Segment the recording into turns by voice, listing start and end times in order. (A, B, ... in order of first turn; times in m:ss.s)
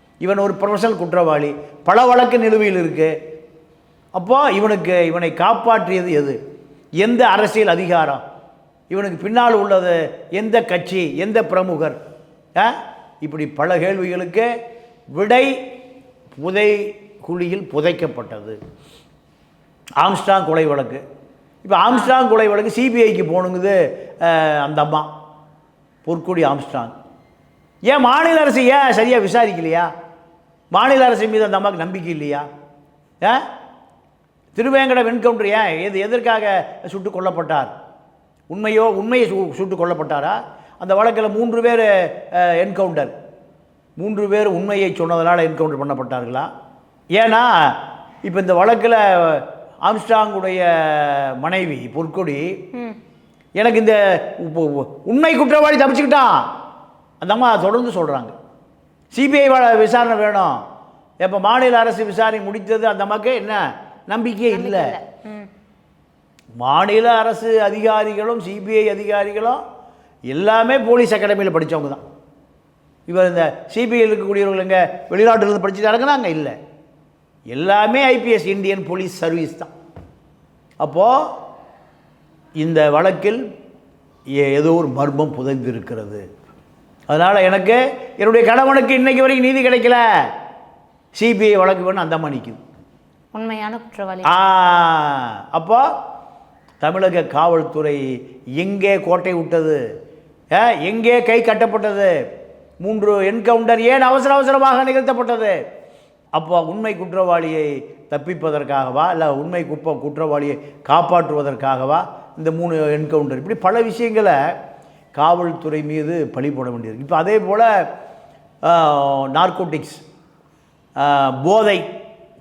0:00.2-0:03.1 A
0:04.1-0:06.4 A
0:07.0-0:08.2 A
0:08.9-0:12.0 A
0:12.6-0:14.5 A
0:15.1-0:15.5 A
0:16.4-0:18.6 A
0:20.0-0:21.0 A
0:21.6-0:25.1 A
0:21.9-0:22.1 B
0:26.0-0:26.9 A
0:27.9-0:29.9 A
0:30.7-0:32.4 A
0:34.5-0:37.7 A
0:38.5-0:43.1 A
0:44.0-0:46.5 A
0:47.2-0:52.5 A
0:53.6-0:56.4 A
0:57.2-0:58.3 A
0:59.1-1:00.6 A
1:01.2-1:04.9 A
1:04.5-1:05.5 B
1:06.6-1:09.6 A
1:10.3-1:12.0 A
1:13.1-1:16.6 A
1:17.5-1:19.7 A
1:20.8-1:21.2 A
1:22.6-1:23.4 A
1:24.4-1:26.2 A
1:27.1-1:30.0 A
1:31.2-1:32.6 A
1:33.3-1:34.4 B
1:34.3-1:35.8 A
1:36.8-1:38.0 A
1:38.6-1:39.8 A
1:40.5-1:42.1 A
1:42.8-1:45.6 A
1:46.3-1:54.4 A
1:55.1-1:57.7 A
1:58.6-2:00.0 A
2:01.0-2:01.8 A